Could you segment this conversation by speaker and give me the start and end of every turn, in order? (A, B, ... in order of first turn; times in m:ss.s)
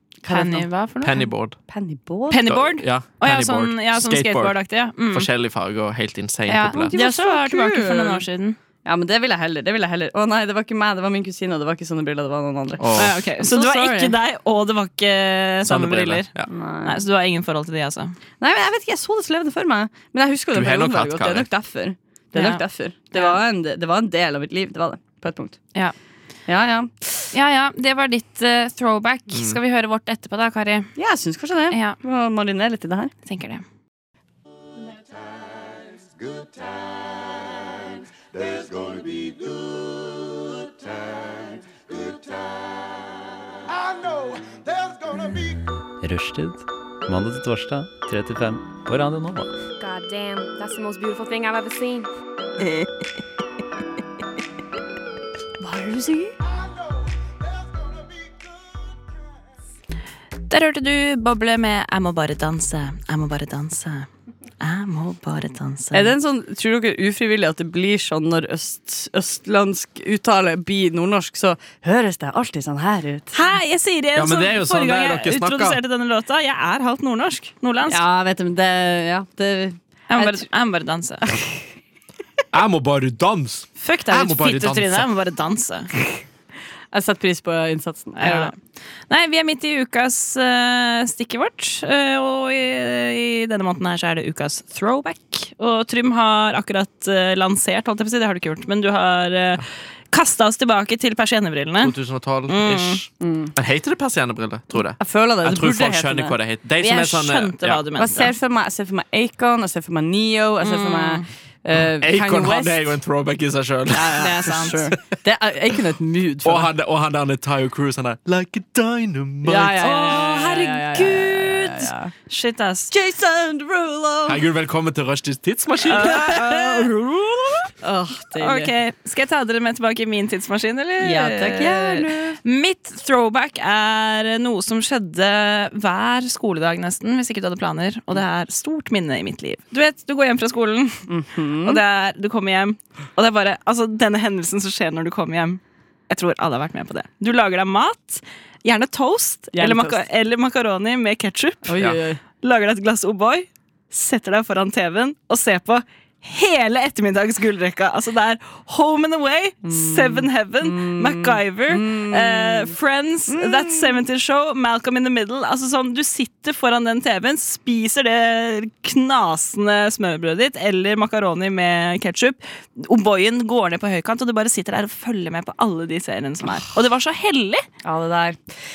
0:00.2-0:00.7 A
0:00.3-0:01.3 B
0:01.0-0:01.6 C
0:01.7-0:02.5 A
0:02.3-0:05.3 B
0:02.4-0:04.6 C
0:05.1-0:06.9 C
0:06.5-0:08.6 B
0:06.9-0:08.2 A
0:08.8-0:14.2 A
0:12.8-0:13.2 C
0:13.0-0:16.3 B
0:15.6-0:16.5 C
0:16.5-0:17.0 A
0:16.8-0:18.1 B
0:18.4-0:25.6 A
0:20.5-0:21.5 C
0:22.3-0:23.4 B
0:26.5-0:27.3 A
0:27.3-0:30.9 B
0:29.3-0:29.6 C
0:31.0-0:33.1 A
0:31.7-0:32.0 B
0:33.2-0:33.6 B
0:45.2-0:49.5 D
0:49.8-0:52.1 E
0:55.6-0:56.3 B
1:00.5-1:04.1 B
1:04.6-1:06.1 B
1:05.9-1:13.4 A
1:13.3-1:18.0 B
1:14.1-1:15.8 C
1:17.9-1:20.4 A
1:20.1-1:21.3 B
1:22.5-1:25.1 C
1:23.8-1:25.9 B
1:26.9-1:28.5 A
1:28.2-1:28.5 B
1:29.1-1:41.9 B
1:41.8-1:47.8 C
1:42.5-1:43.0 B
1:43.2-1:43.5 A
1:45.0-1:46.4 A
1:46.8-1:48.3 B
1:48.0-1:52.9 A
1:50.6-1:51.2 B
1:52.0-1:54.4 C
1:53.9-1:56.7 A
1:54.2-1:54.9 B
1:56.4-1:59.8 C
1:59.4-2:02.1 A
1:59.8-2:02.9 B
2:02.9-2:04.4 A
2:04.2-2:06.9 C
2:05.9-2:07.7 B
2:06.0-2:06.6 A
2:07.8-2:08.7 A
2:08.4-2:21.1 B
2:11.0-2:12.4 A
2:21.1-2:21.8 A
2:21.6-2:31.8 B
2:29.5-2:30.0 A
2:31.6-2:32.2 A
2:32.4-2:57.6 B
2:39.6-2:42.7 A
2:43.3-2:44.0 A
2:57.8-2:58.4 A